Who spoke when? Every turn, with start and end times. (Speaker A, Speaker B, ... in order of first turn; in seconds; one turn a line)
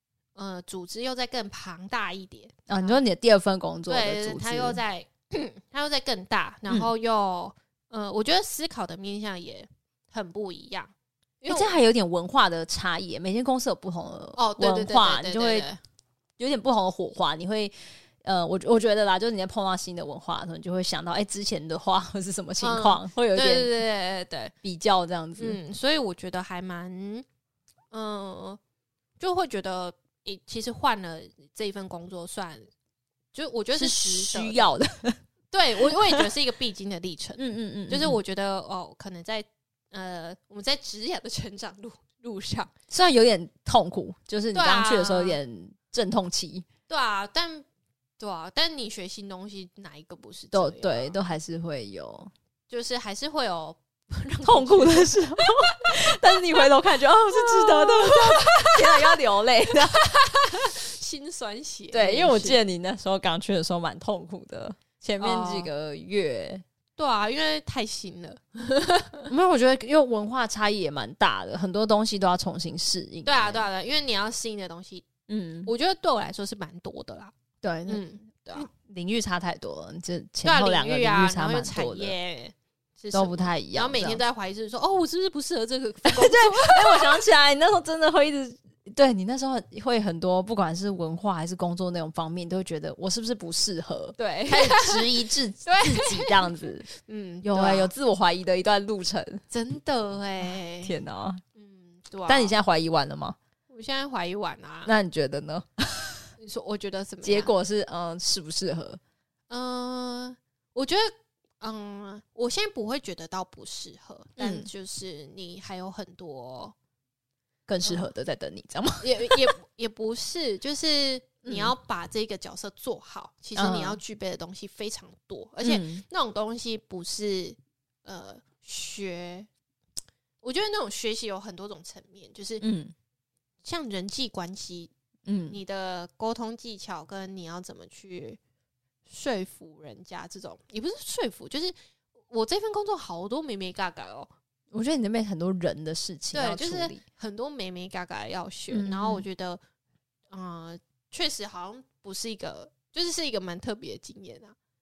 Speaker A: 0.3-3.0
Speaker B: 2.7-4.8
Speaker A: 3.9-11.8
Speaker B: 11.5-15.7
Speaker A: 14.4-15.8
Speaker B: 16.4-23.7
Speaker A: 22.6-24.5
Speaker B: 24.6-25.6
Speaker A: 25.4-27.2
Speaker A: 27.9-28.6
Speaker A: 29.2-32.7
Speaker A: 33.3-34.7
Speaker B: 33.8-35.2
Speaker A: 35.5-42.7
Speaker B: 35.8-36.2
Speaker B: 37.4-38.2
Speaker B: 42.9-46.7
Speaker A: 44.5-45.4
Speaker A: 46.9-47.7
Speaker A: 48.2-51.2
Speaker B: 50.5-52.3
Speaker A: 52.7-55.8
Speaker B: 54.4-60.7
Speaker A: 57.3-59.2
Speaker A: 60.0-62.6
Speaker B: 61.9-66.6
Speaker A: 65.2-65.7
Speaker A: 67.0-69.3
Speaker B: 69.3-73.7
Speaker A: 73.2-75.1
Speaker B: 75.3-75.7
Speaker A: 75.7-77.3
Speaker B: 77.6-78.0
Speaker A: 77.9-78.7
Speaker B: 78.5-82.1
Speaker A: 80.4-87.2
Speaker B: 83.1-84.2
Speaker B: 86.1-96.9
Speaker A: 94.2-97.9
Speaker B: 97.4-99.4
Speaker A: 99.5-100.9
Speaker B: 100.4-101.4
Speaker A: 101.6-102.5
Speaker B: 102.3-103.4
Speaker A: 103.7-104.9
Speaker B: 104.9-106.3
Speaker A: 106.4-107.5
Speaker B: 107.2-109.0
Speaker A: 109.5-116.8
Speaker B: 114.4-114.7
Speaker B: 117.7-119.5
Speaker A: 119.0-129.5
Speaker B: 121.5-121.7
Speaker B: 123.6-124.0
Speaker B: 125.6-126.0
Speaker A: 130.4-132.7
Speaker B: 132.6-132.9
Speaker A: 133.6-134.9
Speaker B: 135.3-135.6
Speaker A: 135.5-138.4
Speaker A: 139.1-141.8
Speaker A: 142.3-144.3
Speaker B: 144.7-147.0
Speaker A: 146.3-149.6
Speaker B: 148.7-149.3
Speaker A: 150.3-154.6